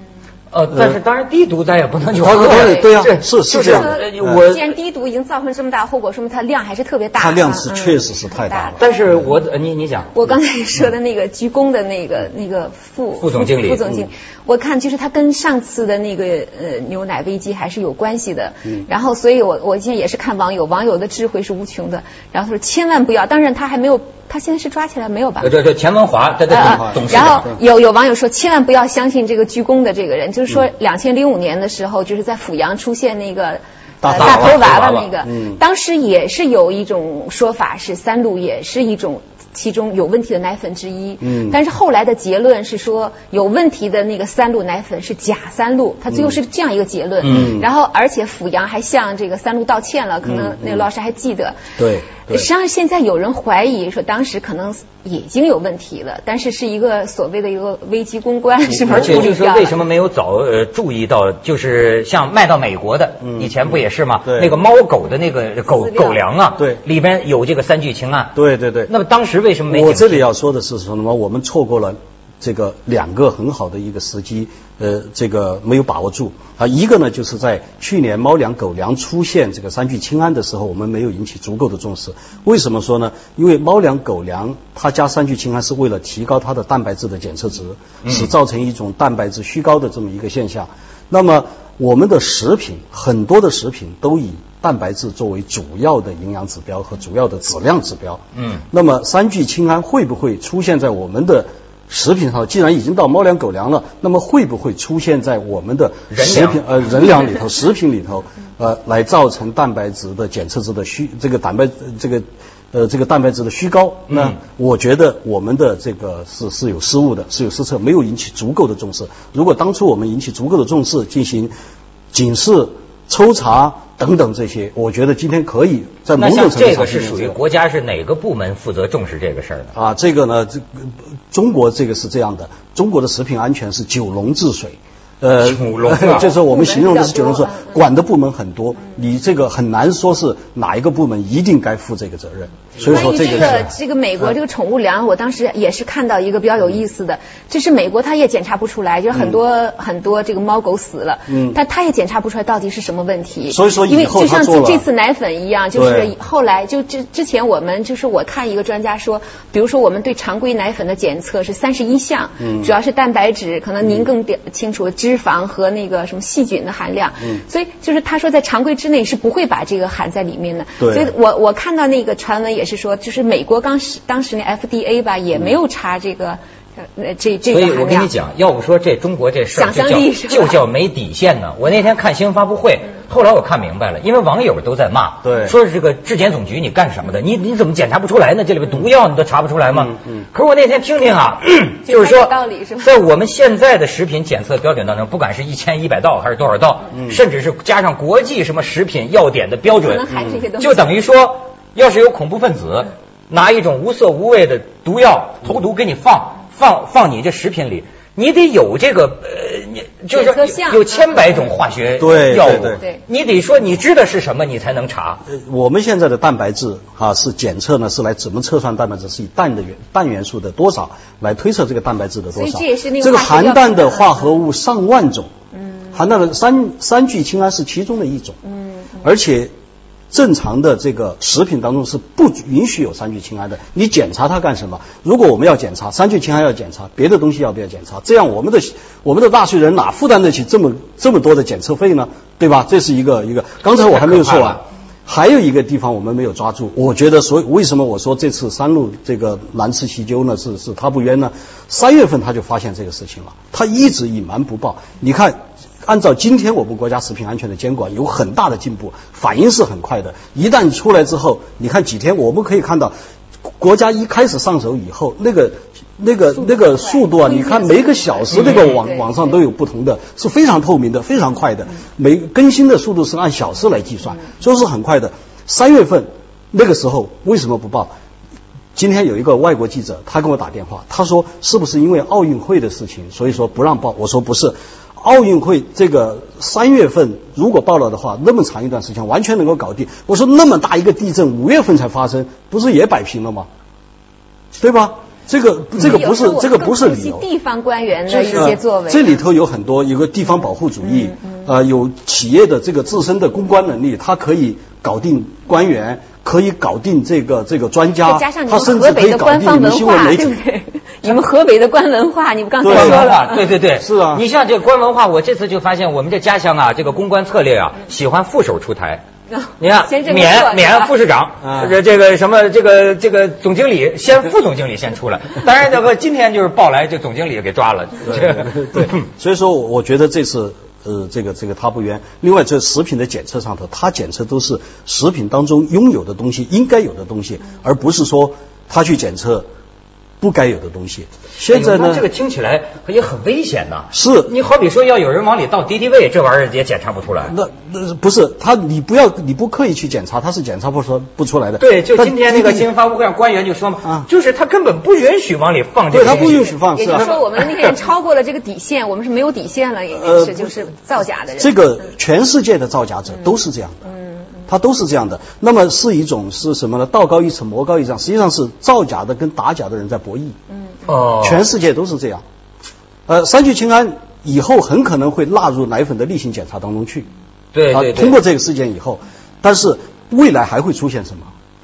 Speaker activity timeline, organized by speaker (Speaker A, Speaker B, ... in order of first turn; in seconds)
Speaker A: 0.5-4.8, 8.8-10.1, 13.2-13.8, 25.4-27.5, 34.2-35.1, 47.2-47.5, 58.9-68.4, 68.9-70.2, 98.4-98.6, 106.1-107.1, 114.1-114.4, 126.2-129.7, 135.4-136.3, 177.5-200.1, 200.6-215.2, 243.9-244.6, 268.3-268.8, 312.6-319.0, 319.6-329.0, 341.4-347.4, 351.6-357.5, 370.9-371.5, 377.5-378.2
Speaker B: 0.7-1.0, 2.2-4.4, 7.2-9.0, 26.6-27.6, 34.0-35.6, 41.2-41.6, 47.2-47.7, 50.2-50.9, 51.8-52.5, 58.9-59.2, 63.2-64.5, 68.3-68.9, 69.7-121.5, 122.1-127.4, 129.7-143.7, 151.3-151.6, 153.5-154.8, 155.8-156.1, 162.4-162.7, 170.8-171.1, 185.2-185.6, 189.7-190.2, 196.9-197.2, 200.1-200.4, 212.0-212.8, 215.3-225.3, 225.9-228.4, 229.0-229.5, 230.1-262.9, 263.6-277.9, 278.8-293.5, 294.6-297.2, 298.1-310.4, 312.6-313.1, 313.7-314.2, 321.4-321.8, 328.1-339.5, 340.2-342.1, 343.9-344.3, 347.2-352.7, 355.9-357.1, 359.9-360.5, 361.4-363.9, 364.5-370.4, 371.2-372.2, 373.1-377.1, 377.7-381.3
Speaker C: 2.5-2.9, 3.6-8.8, 10.1-25.5, 26.5-51.6, 52.3-59.8, 65.7-66.2, 136.1-137.8, 142.8-178.1, 179.5-180.6, 191.8-192.9, 199.8-200.9, 210.1-211.0, 222.3-224.2, 228.5-228.9, 266.8-268.8, 295.8-299.2, 308.0-313.4, 319.5-320.9, 356.1-361.6